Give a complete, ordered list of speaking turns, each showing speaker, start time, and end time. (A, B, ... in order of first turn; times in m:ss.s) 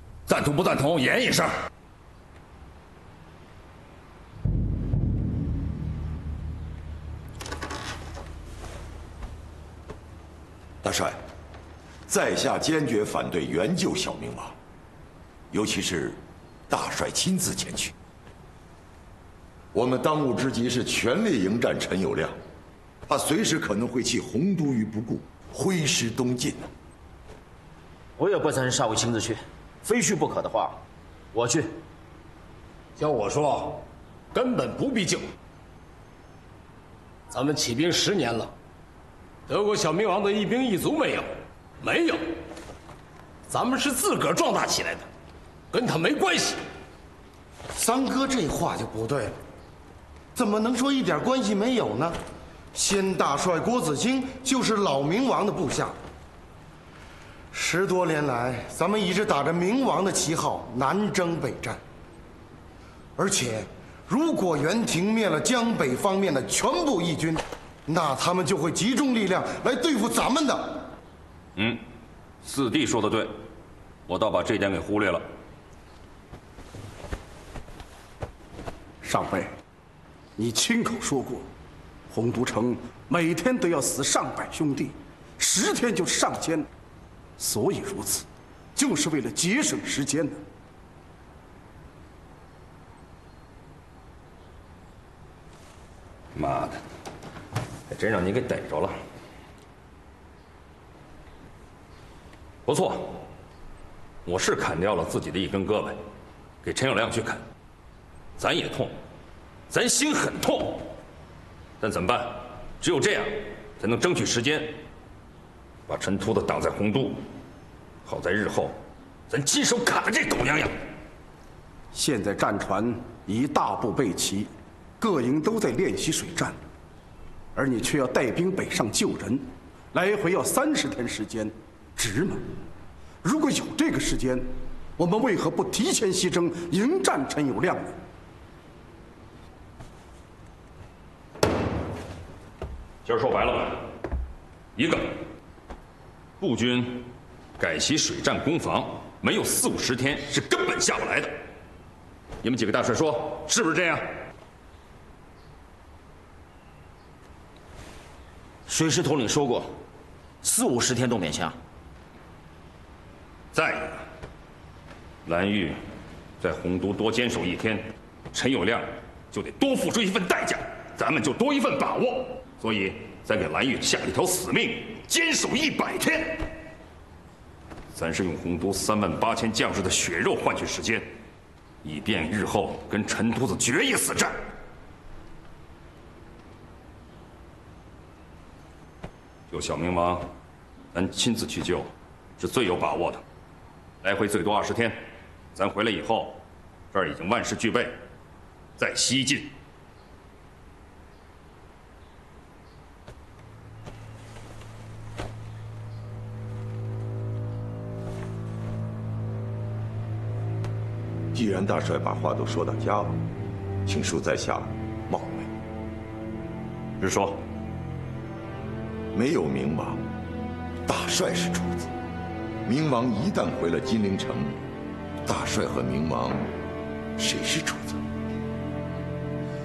0:00.3-0:01.5 A
0:10.8-0:11.2 B
0:12.1-0:14.5 B
0:15.5-0:16.2 B
0:16.7-0:17.9 B
0:19.7-0:22.4 B
0:23.1-0:26.7 B
0:28.2-0:30.8 C
0:31.3-0:31.7 C
0:33.0-0:33.7 D
0:34.3-0:35.2 D
0:37.3-0:38.5 D
0:39.5-0:41.3 D
0:41.8-0:42.2 D
0:43.5-0:45.0 D
0:45.7-0:46.6 D
0:47.8-0:49.4 E
0:50.3-0:52.2 E
0:52.7-0:56.0 E
0:57.5-1:01.8 E
1:03.2-1:10.8 E
1:11.6-1:11.8 A
1:12.4-1:13.3 A
1:14.1-1:15.2 A
1:19.0-1:19.5 F
1:20.4-1:21.5 F
1:22.1-1:26.7 F
1:27.4-1:28.2 F
1:28.8-1:30.4 F
1:36.3-1:36.8 A
1:37.9-1:38.9 A
1:42.6-1:43.2 A
1:44.2-1:46.0 A
1:46.6-1:47.4 A
1:48.4-1:48.9 A
1:49.7-1:50.9 A
1:51.8-1:54.8 A
1:55.9-1:57.2 A
1:58.0-1:58.7 A
1:59.3-2:00.7 A
2:01.9-2:06.6 F
2:07.5-2:12.4 F
2:13.2-2:17.9 F
2:23.0-2:23.8 A
2:24.8-2:25.1 A
2:26.4-2:31.3 A
2:32.4-2:34.0 A
2:38.7-2:39.8 C
2:40.4-2:41.6 C
2:43.5-2:44.0 A
2:45.2-2:45.8 A
2:46.4-2:56.4 A
2:57.9-3:01.1 A
3:01.8-3:04.3 A
3:09.5-3:10.3 A
3:10.9-3:13.2 A
3:14.0-3:15.0 A
3:15.5-3:16.4 A
3:16.9-3:18.0 A
3:18.8-3:19.5 A
3:31.3-3:33.2 B
3:33.8-3:35.5 B
3:37.0-3:37.4 A
3:39.1-3:40.0 B
3:40.8-3:41.9 B
3:42.6-3:44.6 B
3:45.2-3:46.5 B
3:47.2-3:48.0 B